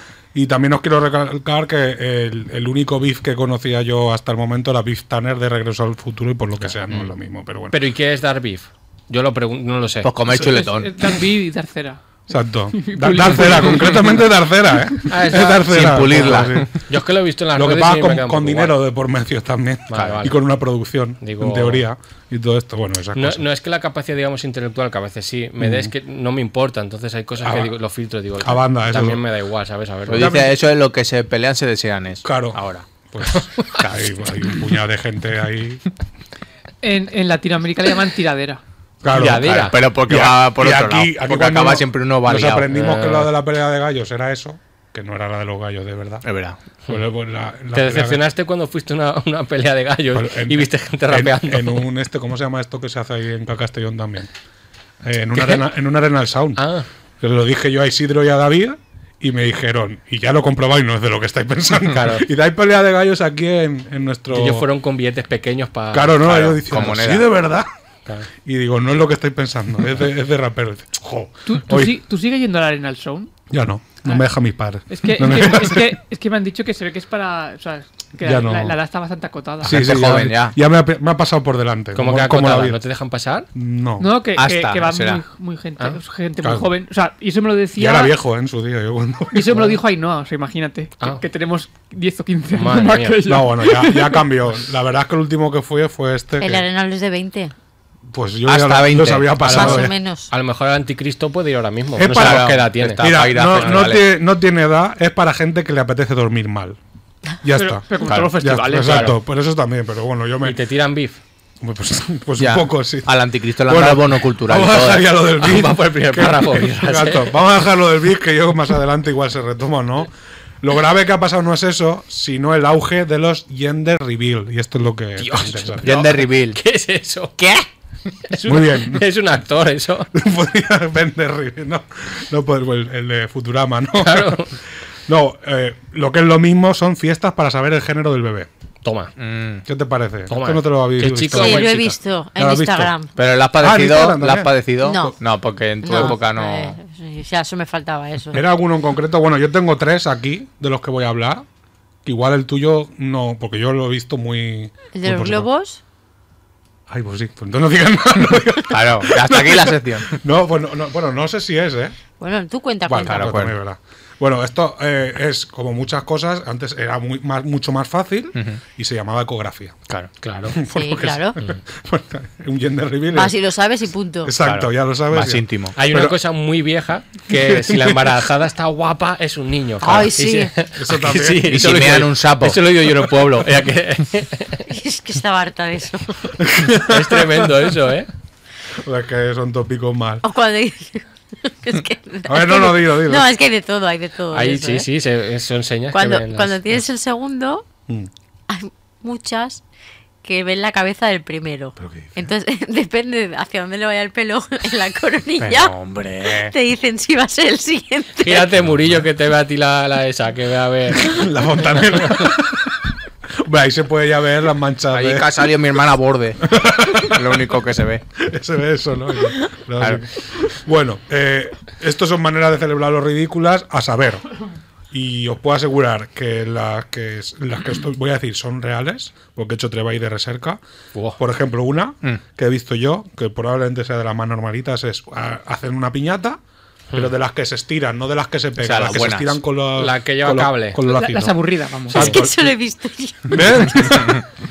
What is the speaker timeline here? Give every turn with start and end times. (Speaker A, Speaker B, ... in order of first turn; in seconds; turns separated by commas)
Speaker A: 0.3-7.8, Speaker B: 7.7-10.1, Speaker C: 10.0-10.9, Speaker D: 10.4-12.0, Speaker A: 12.3-16.9, Speaker D: 12.7-14.2, Speaker B: 15.1-18.7, Speaker C: 15.5-16.7, Speaker A: 17.5-23.4, Speaker B: 19.9-20.4, Speaker C: 19.9-20.2, Speaker B: 21.2-21.9, Speaker B: 23.1-30.3, Speaker A: 25.6-25.9, Speaker A: 27.4-27.7, Speaker A: 28.4-29.2, Speaker C: 30.1-32.9, Speaker A: 30.1-30.5, Speaker A: 32.2-35.8, Speaker C: 33.8-34.4, Speaker D: 36.8-38.6, Speaker A: 39.0-46.2, Speaker B: 39.1-39.8, Speaker C: 39.1-42.7, Speaker B: 42.7-43.3, Speaker C: 46.2-46.6, Speaker A: 46.9-48.2, Speaker B: 47.7-51.9, Speaker A: 50.1-54.3, Speaker A: 55.0-56.6, Speaker B: 55.4-55.6, Speaker B: 56.6-56.9, Speaker A: 57.2-64.6, Speaker B: 61.9-62.2, Speaker B: 64.3-66.6, Speaker A: 65.9-67.7, Speaker C: 66.6-67.3, Speaker A: 68.5-72.0, Speaker D: 71.5-73.3, Speaker A: 73.5-75.9, Speaker D: 74.9-79.7, Speaker A: 78.2-78.8, Speaker C: 79.6-80.6, Speaker A: 79.6-82.8, Speaker B: 82.0-83.5, Speaker A: 83.5-84.1, Speaker D: 84.0-88.1, Speaker C: 84.4-85.2, Speaker A: 86.4-86.7, Speaker A: 87.8-89.7, Speaker D: 89.3-94.2, Speaker B: 92.5-93.2, Speaker A: 93.2-96.6, Speaker E: 96.4-97.5, Speaker A: 98.1-99.9, Speaker C: 98.5-99.6, Speaker B: 99.4-103.8, Speaker E: 99.5-100.3, Speaker A: 102.0-106.8, Speaker C: 102.1-104.0, Speaker A: 107.4-110.6, Speaker D: 107.5-109.1, Speaker C: 108.1-108.3, Speaker B: 108.8-109.2, Speaker B: 110.4-111.2, Speaker A: 111.6-126.1, Speaker C: 112.4-115.1, Speaker B: 115.4-117.4, Speaker B: 125.2-127.4, Speaker C: 125.8-126.6, Speaker C: 127.4-127.7, Speaker B: 128.3-130.1, Speaker A: 128.4-129.1, Speaker A: 130.1-134.5, Speaker B: 134.0-134.5, Speaker A: 135.1-138.5, Speaker B: 138.8-139.1, Speaker C: 139.2-139.6, Speaker A: 139.7-141.8, Speaker B: 140.3-141.9, Speaker E: 141.3-143.1, Speaker A: 142.4-142.9, Speaker C: 143.2-146.8, Speaker A: 143.6-145.1, Speaker E: 144.8-145.1, Speaker E: 145.8-148.4, Speaker A: 148.3-151.4, Speaker A: 152.1-155.5, Speaker E: 154.9-155.8, Speaker A: 156.9-161.9, Speaker C: 158.7-160.1, Speaker E: 162.2-163.3, Speaker A: 162.9-169.8, Speaker C: 163.1-163.6, Speaker C: 168.3-168.6, Speaker B: 170.2-170.6, Speaker A: 170.5-173.3, Speaker E: 170.7-171.4, Speaker E: 173.1-174.3, Speaker A: 174.2-176.2, Speaker C: 174.4-175.7, Speaker B: 175.8-184.7, Speaker A: 177.3-178.1, Speaker E: 179.8-180.5, Speaker A: 180.8-181.6, Speaker C: 181.4-183.5, Speaker E: 184.7-186.3, Speaker A: 186.4-187.5, Speaker B: 186.8-188.1, Speaker A: 188.8-190.2, Speaker E: 190.2-194.9, Speaker A: 192.3-193.3, Speaker B: 194.3-196.6, Speaker E: 195.9-197.7, Speaker E: 198.5-199.6, Speaker E: 200.2-208.5, Speaker C: 205.4-206.5, Speaker B: 208.2-211.1, Speaker A: 211.0-212.8, Speaker A: 213.4-215.4, Speaker C: 214.9-218.0, Speaker A: 216.4-217.5, Speaker A: 218.2-224.2, Speaker C: 219.8-220.0, Speaker A: 224.9-230.6, Speaker A: 231.2-236.4, Speaker A: 236.9-241.4, Speaker C: 238.6-239.4, Speaker B: 239.8-240.8, Speaker D: 240.9-242.1, Speaker A: 241.9-242.5, Speaker E: 241.9-243.9, Speaker A: 243.3-244.2